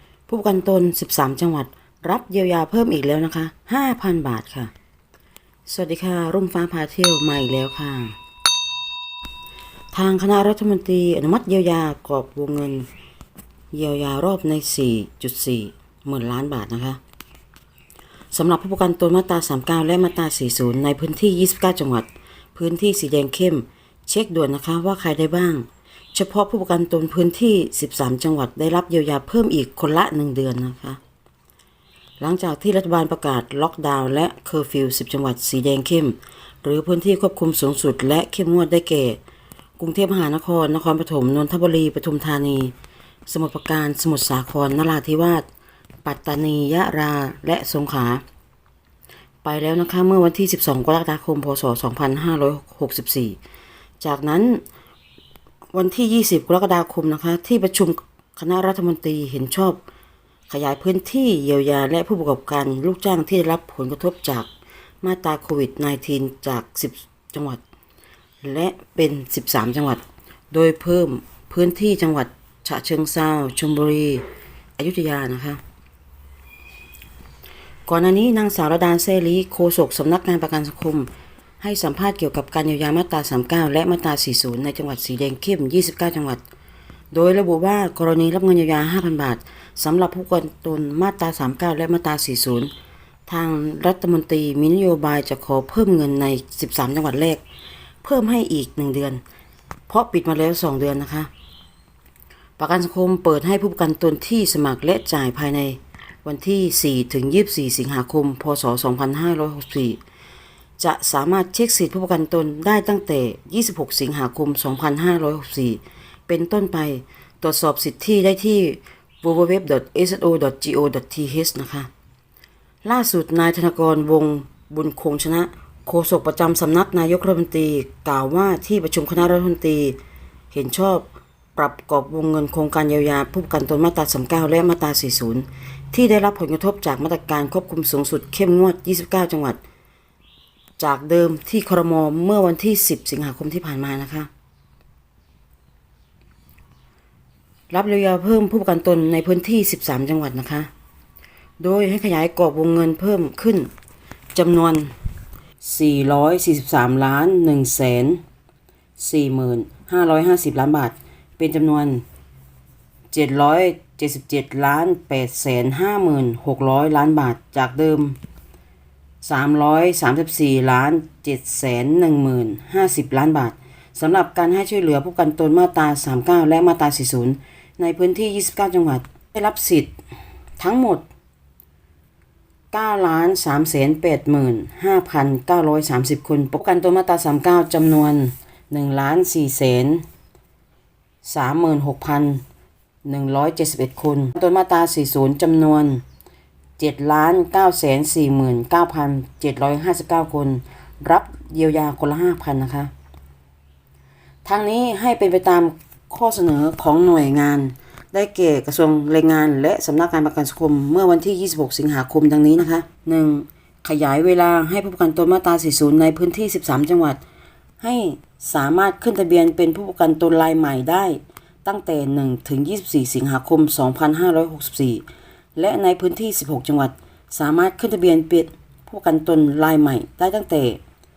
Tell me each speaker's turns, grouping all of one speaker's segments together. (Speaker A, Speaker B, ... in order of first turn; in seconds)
Speaker A: 0.3-4.7, 5.7-8.2, 9.9-12.8, 13.7-17.0, 18.3-31.0, 32.2-39.2, 39.8-42.7, 43.3-45.4, 46.0-48.2, 49.4-53.4, 54.0-54.6, 55.7-59.8, 60.5-64.5, 65.0-67.6, 68.4-74.2, 74.8-75.6, 77.9-86.4, 87.1-92.7, 93.3-97.4, 98.0-99.2, 99.9-101.3, 102.6-110.0, 110.8-121.9, 122.8-130.0, 130.5-139.6, 140.8-144.3, 147.7-150.7, 151.6-153.7, 154.3-154.9, 155.6-158.2, 159.0-162.0, 163.1-168.2, 169.2-179.9, 180.6-181.0, 182.7-190.0, 191.2-192.4, 193.0-196.0, 196.8-202.9, 204.4-217.2, 217.8-225.0, 225.6-230.8